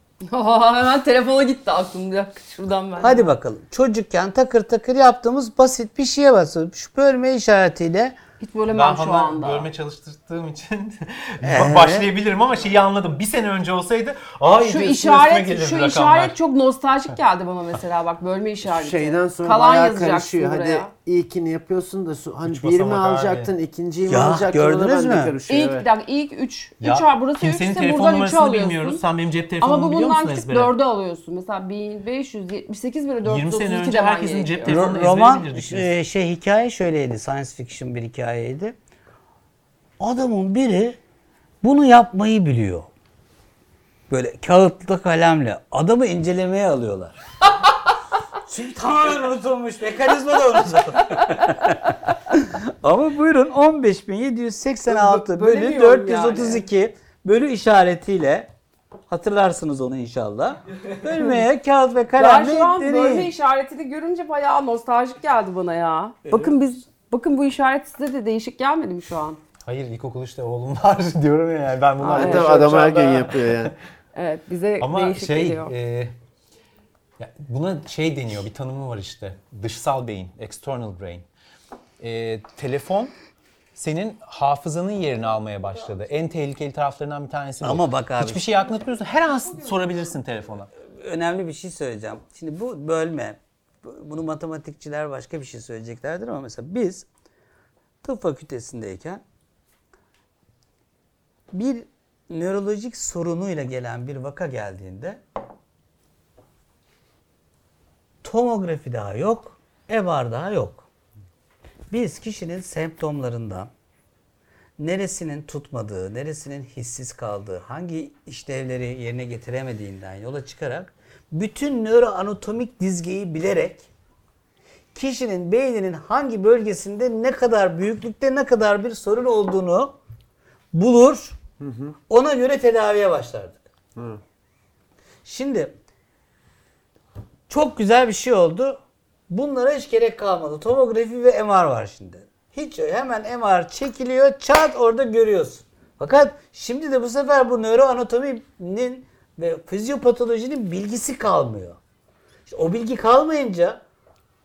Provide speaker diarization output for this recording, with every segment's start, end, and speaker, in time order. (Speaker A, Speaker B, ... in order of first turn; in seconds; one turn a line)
Speaker A: 0.2-3.3
Speaker B: 3.0-8.2
Speaker A: 8.4-9.7
Speaker C: 8.7-16.4
Speaker B: 11.4-12.1
Speaker A: 14.6-20.9
Speaker D: 18.6-25.9
Speaker C: 22.4-23.5
Speaker B: 24.1-25.3
Speaker A: 25.5-29.0
Speaker C: 26.8-30.7
Speaker A: 29.6-34.8
Speaker C: 33.2-35.9
Speaker B: 34.6-38.8
Speaker B: 40.0-41.0
Speaker B: 41.6-42.9
Speaker B: 44.1-47.2
Speaker B: 48.5-58.5
Speaker A: 54.9-56.6
Speaker B: 59.1-63.3
Speaker A: 62.1-69.4
Speaker C: 69.6-73.7
Speaker A: 72.0-72.7
Speaker D: 72.1-73.8
Speaker A: 74.1-75.7
Speaker C: 74.8-76.2
Speaker C: 77.2-81.3
Speaker C: 82.0-83.1
Speaker C: 83.8-90.7
Speaker B: 87.6-88.5
Speaker B: 90.8-97.1
Speaker B: 98.0-99.2
Speaker B: 101.5-105.2
Speaker B: 108.2-110.9
Speaker B: 111.9-113.7
Speaker B: 114.8-123.9
Speaker B: 124.9-130.0
Speaker B: 130.7-131.4
Speaker D: 131.6-131.9
Speaker B: 132.1-133.6
Speaker D: 133.9-134.2
Speaker B: 135.2-135.8
Speaker B: 137.5-151.8
Speaker B: 152.5-153.8